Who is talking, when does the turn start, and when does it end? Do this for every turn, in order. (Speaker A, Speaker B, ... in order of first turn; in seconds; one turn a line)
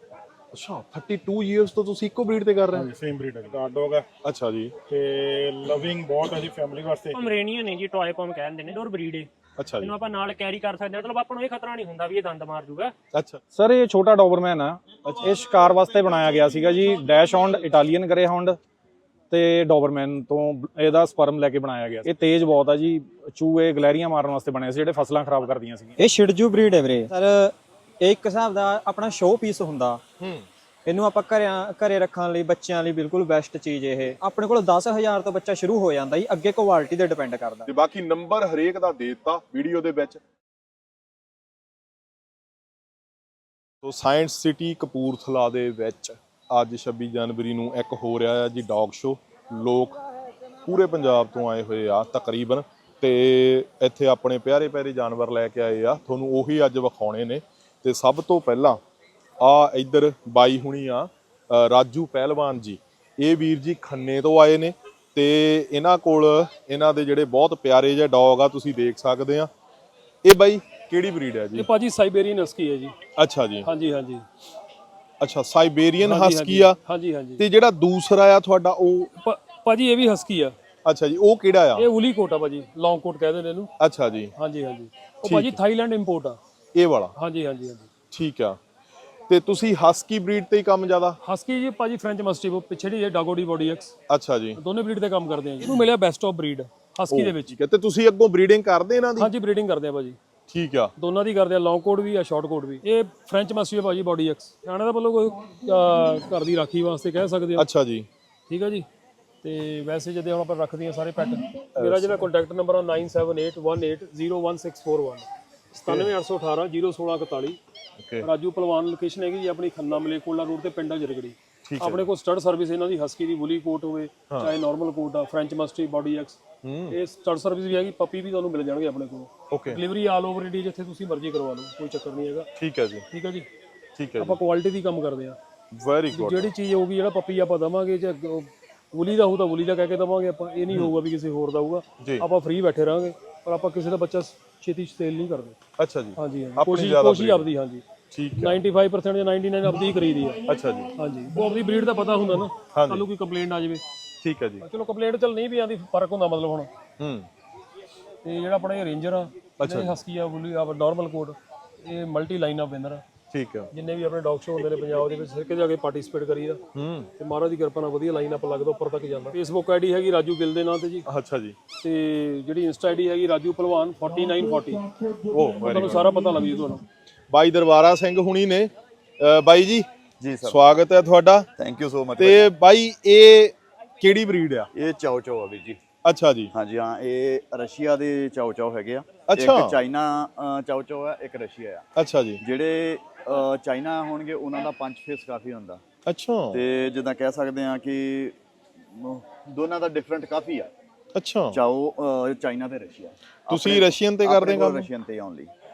Speaker A: 0.5-2.9
Speaker B: 2.7-4.0
Speaker A: 4.2-4.7
Speaker B: 4.9-7.3
Speaker C: 7.1-9.3
Speaker A: 9.6-9.9
Speaker C: 9.8-12.9
Speaker A: 13.1-13.4
Speaker D: 13.5-18.6
Speaker A: 15.0-15.3
Speaker D: 19.3-25.9
Speaker E: 26.0-30.0
Speaker A: 30.2-30.5
Speaker E: 30.9-37.7
Speaker A: 37.7-40.2
Speaker A: 43.8-50.0
Speaker A: 50.6-58.8
Speaker A: 59.4-69.5
Speaker A: 70.2-71.7
Speaker F: 71.5-72.9
Speaker A: 73.2-73.7
Speaker F: 73.6-74.2
Speaker A: 75.2-76.8
Speaker F: 76.0-77.4
Speaker A: 77.4-79.1
Speaker F: 79.2-80.5
Speaker A: 80.8-81.9
Speaker F: 81.8-83.7
Speaker A: 83.8-84.3
Speaker F: 84.3-86.4
Speaker A: 85.2-85.6
Speaker A: 86.7-87.1
Speaker F: 87.2-87.9
Speaker A: 88.1-88.6
Speaker A: 89.3-91.2
Speaker F: 91.2-93.9
Speaker A: 94.1-94.6
Speaker F: 94.5-97.5
Speaker A: 95.6-95.8
Speaker A: 97.1-99.3
Speaker F: 99.2-100.2
Speaker A: 100.5-100.9
Speaker F: 101.0-107.7
Speaker A: 107.6-108.1
Speaker F: 108.5-108.9
Speaker F: 109.4-117.6
Speaker A: 111.8-112.3
Speaker A: 115.8-116.1
Speaker A: 118.0-118.3
Speaker F: 118.2-132.5
Speaker A: 121.6-122.1
Speaker A: 124.3-124.5
Speaker A: 126.6-127.0
Speaker A: 129.5-129.8
Speaker A: 132.6-133.0
Speaker F: 133.1-133.5
Speaker A: 133.9-134.4
Speaker F: 134.2-135.4
Speaker A: 135.7-136.5
Speaker F: 136.1-145.6
Speaker A: 145.8-147.5
Speaker F: 146.2-147.8
Speaker A: 148.1-148.6
Speaker F: 148.4-150.4
Speaker A: 150.4-150.9
Speaker F: 150.9-153.8
Speaker A: 152.7-153.0
Speaker A: 154.2-154.6
Speaker F: 154.6-156.7
Speaker A: 157.0-157.3
Speaker F: 158.2-163.0
Speaker A: 159.6-160.0
Speaker A: 163.3-163.7
Speaker F: 163.7-166.6
Speaker A: 166.7-167.1
Speaker F: 167.2-171.0
Speaker A: 171.1-171.6
Speaker F: 171.8-174.9
Speaker A: 175.3-176.1
Speaker F: 175.6-176.8
Speaker A: 177.3-179.8
Speaker G: 180.2-180.6
Speaker A: 180.4-181.5
Speaker G: 181.6-182.5
Speaker A: 182.2-184.7
Speaker G: 184.7-185.8
Speaker A: 186.0-186.5
Speaker G: 186.5-191.8
Speaker A: 189.3-189.8
Speaker A: 191.9-192.4
Speaker G: 192.4-195.8
Speaker A: 196.1-196.6
Speaker G: 196.5-200.7
Speaker A: 201.1-201.6
Speaker G: 201.5-205.5
Speaker A: 203.5-204.9